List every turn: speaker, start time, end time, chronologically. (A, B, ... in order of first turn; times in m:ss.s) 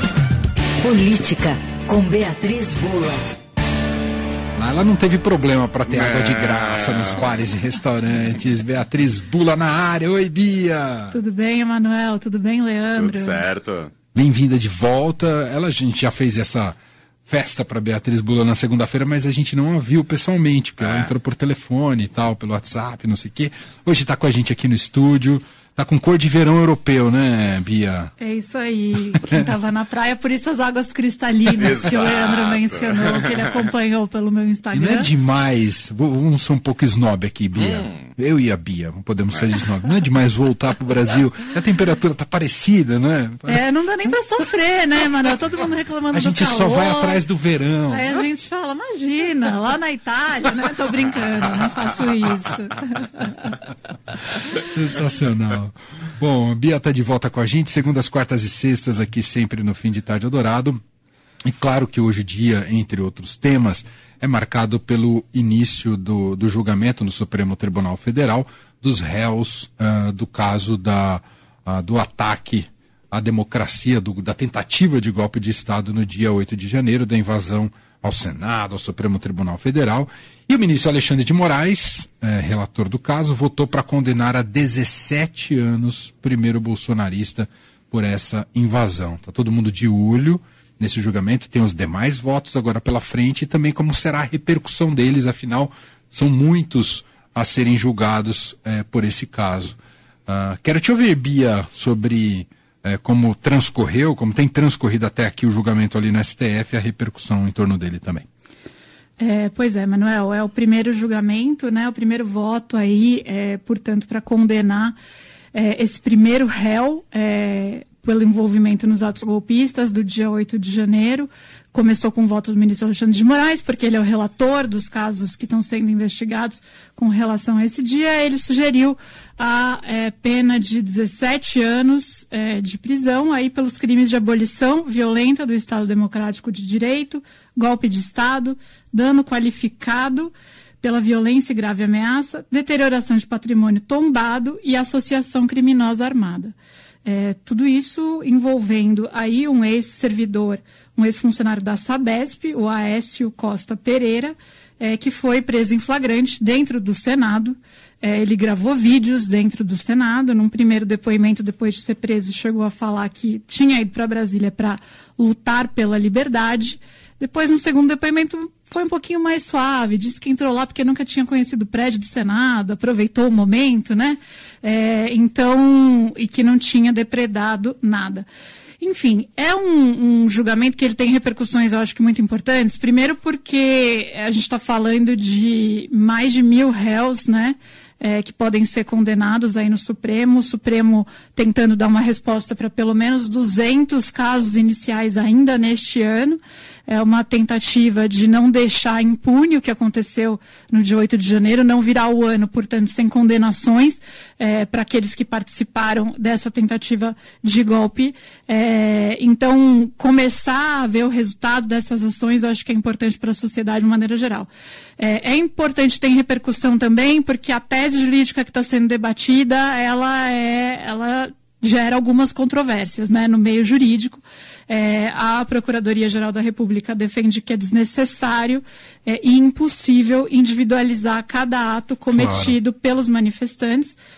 0:00.8-0:03.2 A
0:04.6-0:11.2 B
0:05.9-0:07.4 C
0:11.1-0:13.4 D
0:13.0-0:13.9 C
0:14.1-0:28.1 B
0:20.8-0:21.1 C
0:28.2-0:35.1 D
0:31.5-0:33.4 C
0:34.7-0:43.6 B
0:37.6-0:38.0 C
0:43.4-0:47.2 D
0:46.1-0:48.2 B
0:47.9-0:53.6 D
0:54.5-1:00.8 B
1:01.4-1:48.2 B
1:49.2-1:55.0 D
1:55.5-2:26.5 D
2:27.0-2:58.2 D
2:58.8-3:54.0 D
3:52.1-3:52.6 B